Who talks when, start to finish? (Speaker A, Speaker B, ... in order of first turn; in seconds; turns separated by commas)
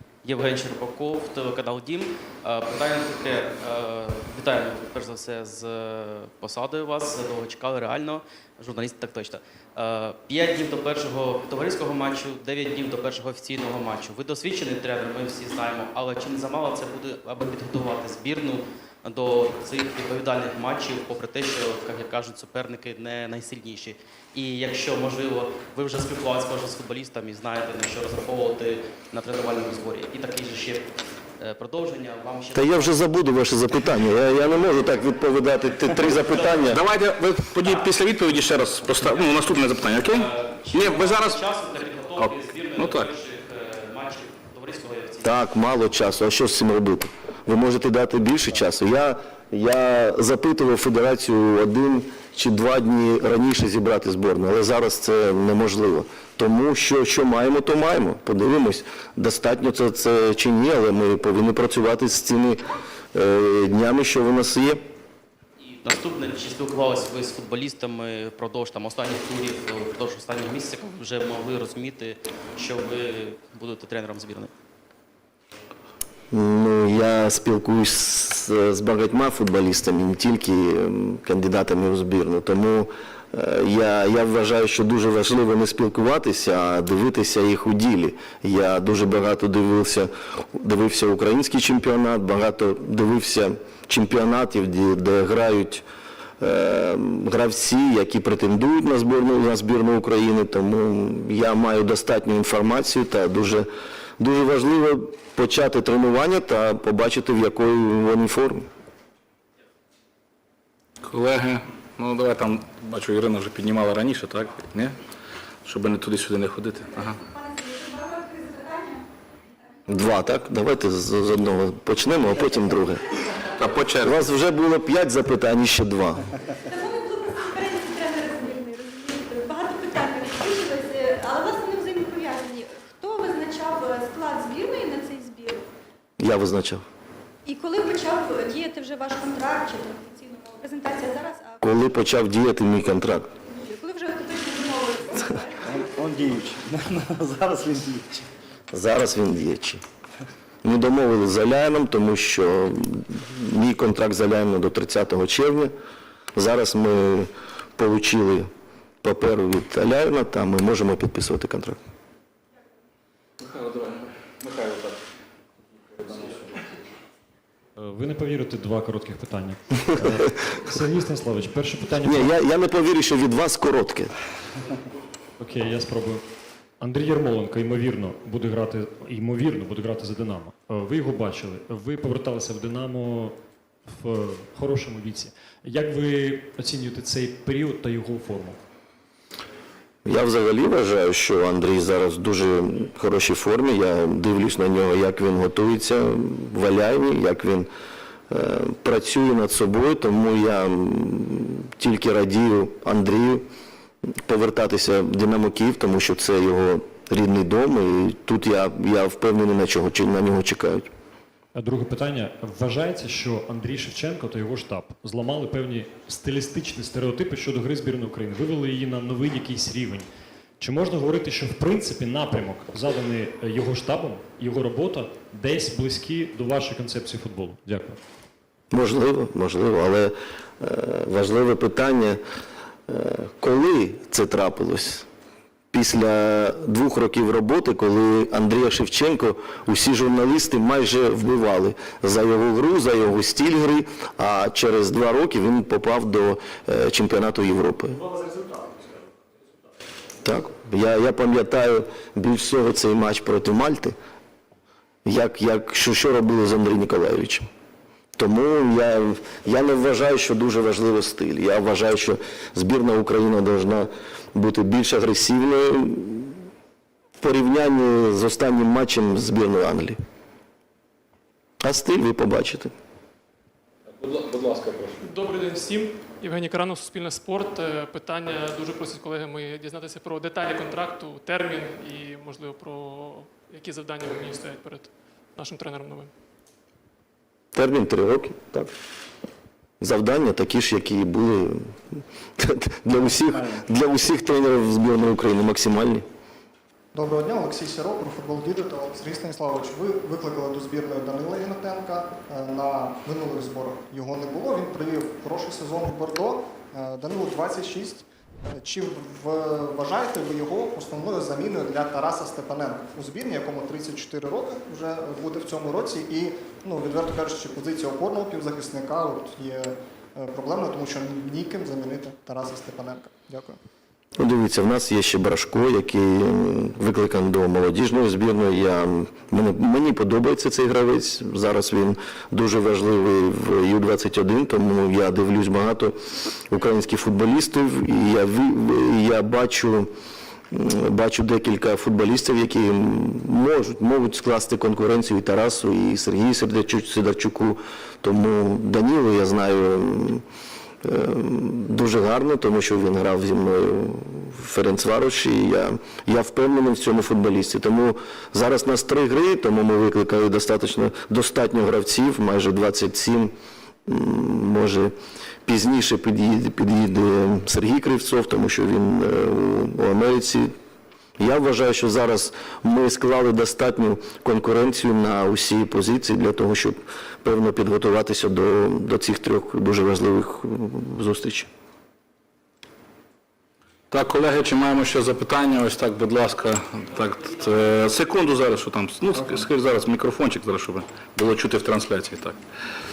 Speaker A: 0.2-33.0, Speaker B: 32.5-36.8, Speaker A: 36.3-36.7, Speaker C: 36.6-41.4, Speaker A: 40.0-45.3, Speaker C: 42.2-43.1, Speaker B: 45.2-62.6, Speaker B: 63.1-64.8, Speaker A: 65.8-74.5, Speaker B: 76.3-95.8, Speaker B: 96.4-103.7, Speaker B: 104.2-108.7, Speaker C: 111.0-115.0, Speaker C: 115.6-117.2, Speaker D: 117.3-119.0, Speaker B: 119.9-123.0, Speaker C: 123.5-124.2, Speaker B: 124.0-126.3, Speaker D: 126.7-135.7, Speaker B: 136.2-136.8, Speaker D: 137.4-141.6, Speaker B: 141.6-143.3, Speaker D: 143.5-145.8, Speaker E: 145.7-148.3, Speaker B: 148.7-149.8, Speaker B: 150.6-155.7, Speaker B: 156.3-158.5, Speaker B: 159.0-161.8, Speaker C: 163.4-164.9, Speaker C: 166.0-166.4, Speaker F: 167.8-172.3, Speaker B: 172.0-174.1, Speaker F: 175.4-176.2, Speaker F: 176.8-188.6, Speaker B: 190.1-197.7, Speaker B: 198.3-203.5, Speaker B: 204.2-210.9, Speaker F: 211.6-220.1, Speaker F: 220.6-228.0, Speaker B: 228.7-232.2, Speaker B: 232.9-235.1, Speaker B: 235.7-248.0, Speaker E: 248.1-248.8, Speaker B: 250.2-253.9, Speaker B: 255.1-257.5, Speaker B: 258.2-266.4, Speaker B: 267.2-270.0, Speaker B: 271.6-272.7, Speaker C: 274.0-275.0, Speaker G: 275.0-286.1, Speaker B: 287.6-288.7, Speaker B: 289.8-296.1, Speaker H: 296.9-323.6, Speaker B: 324.2-336.0, Speaker B: 336.5-339.9, Speaker B: 340.5-350.2, Speaker B: 350.8-363.3, Speaker B: 363.9-364.9, Speaker B: 365.5-370.5, Speaker B: 371.2-381.5, Speaker C: 383.9-392.4, Speaker A: 386.9-387.8